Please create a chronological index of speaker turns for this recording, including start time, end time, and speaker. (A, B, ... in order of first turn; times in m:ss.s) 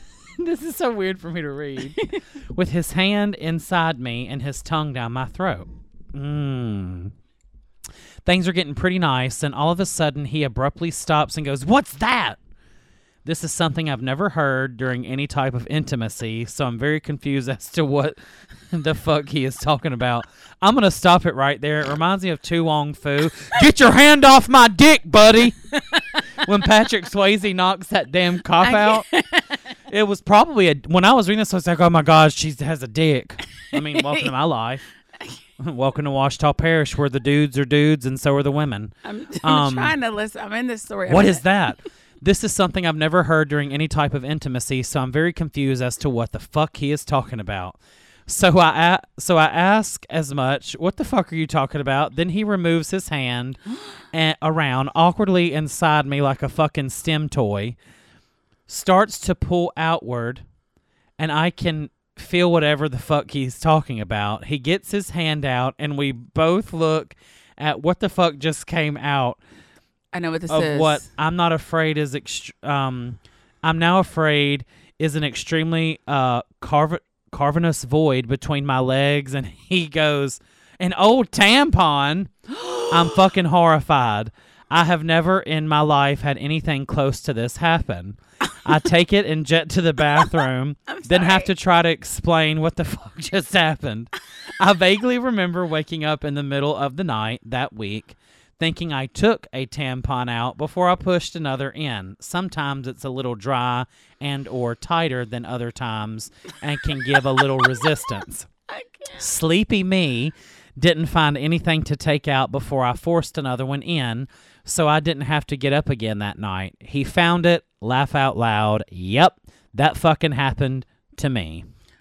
0:00.4-0:07.1 A
0:08.2-0:12.4 A
0:13.2-0:18.2 A
0:18.7-0:25.8 A
0:26.4-0:29.1 A
0:28.6-0:29.6 B
0:29.9-0:34.8 A
0:33.7-0:34.3 B
0:35.6-0:40.0 A
0:39.0-0:41.4 B
0:41.1-0:57.8 A
0:58.7-1:00.4 A
1:01.2-1:09.4 A
1:10.1-1:11.0 B
1:10.5-1:48.5 A
1:22.6-1:23.0 B
1:30.9-1:31.5 B
1:47.4-1:47.9 B
1:48.7-1:49.2 B
1:49.2-2:01.7 A